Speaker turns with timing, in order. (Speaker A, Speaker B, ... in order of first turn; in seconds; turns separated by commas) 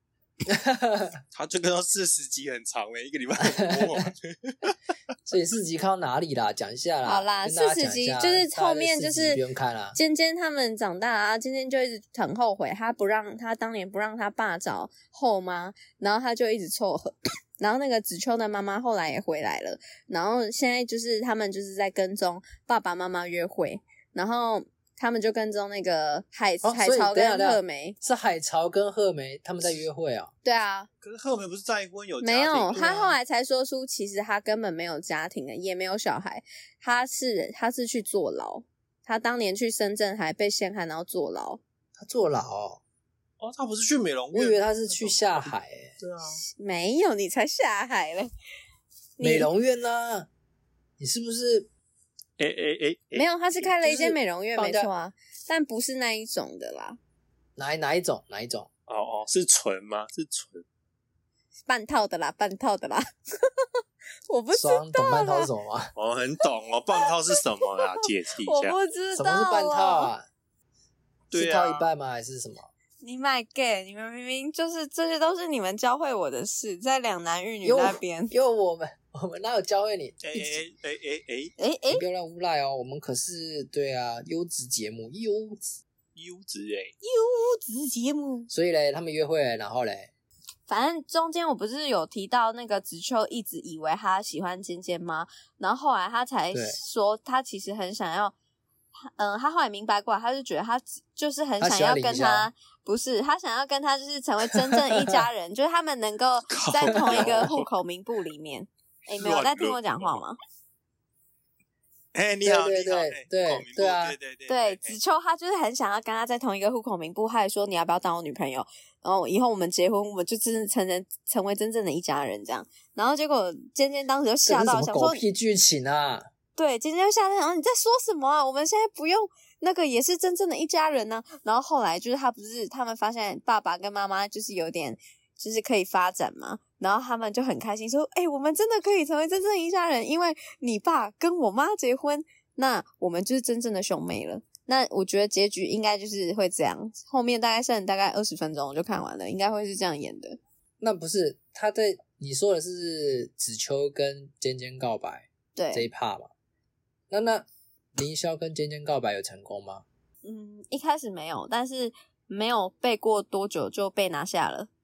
Speaker A: 0.5-1.2, Speaker B: 1.3-4.9, Speaker A: 3.4-4.1, Speaker A: 5.3-10.0, Speaker C: 7.0-9.4, Speaker C: 9.9-28.0, Speaker A: 26.6-30.3, Speaker C: 30.4-30.9, Speaker B: 31.0-33.2, Speaker C: 32.2-41.6, Speaker A: 42.0-42.8, Speaker B: 43.4-46.4, Speaker A: 44.3-46.0, Speaker C: 46.6-48.3, Speaker C: 49.2-49.5, Speaker A: 49.2-50.3, Speaker A: 51.0-51.7, Speaker B: 52.4-53.7, Speaker C: 53.1-57.0, Speaker A: 53.8-54.9, Speaker A: 57.6-58.7, Speaker B: 58.9-60.6, Speaker C: 61.7-63.7, Speaker C: 64.3-65.5, Speaker A: 64.5-65.9, Speaker B: 66.0-68.8, Speaker C: 67.3-67.8, Speaker C: 68.4-70.1, Speaker A: 69.1-70.3, Speaker B: 71.3-71.9, Speaker A: 71.3-72.7, Speaker C: 73.0-78.3, Speaker A: 77.6-80.6, Speaker B: 80.2-81.5, Speaker C: 81.6-82.0, Speaker A: 81.9-85.8, Speaker B: 86.2-87.0, Speaker C: 87.0-88.5, Speaker A: 88.5-90.1, Speaker C: 90.7-98.3, Speaker A: 96.5-96.8, Speaker C: 99.1-110.4, Speaker A: 101.6-102.5, Speaker A: 104.7-105.2, Speaker B: 106.5-107.7, Speaker A: 106.9-107.5, Speaker B: 109.1-110.2, Speaker B: 112.1-115.0, Speaker A: 112.4-114.2, Speaker C: 114.5-125.2, Speaker A: 124.5-126.3, Speaker C: 126.6-150.4, Speaker A: 150.8-156.3, Speaker C: 155.6-155.9, Speaker A: 157.1-159.8, Speaker C: 160.2-164.7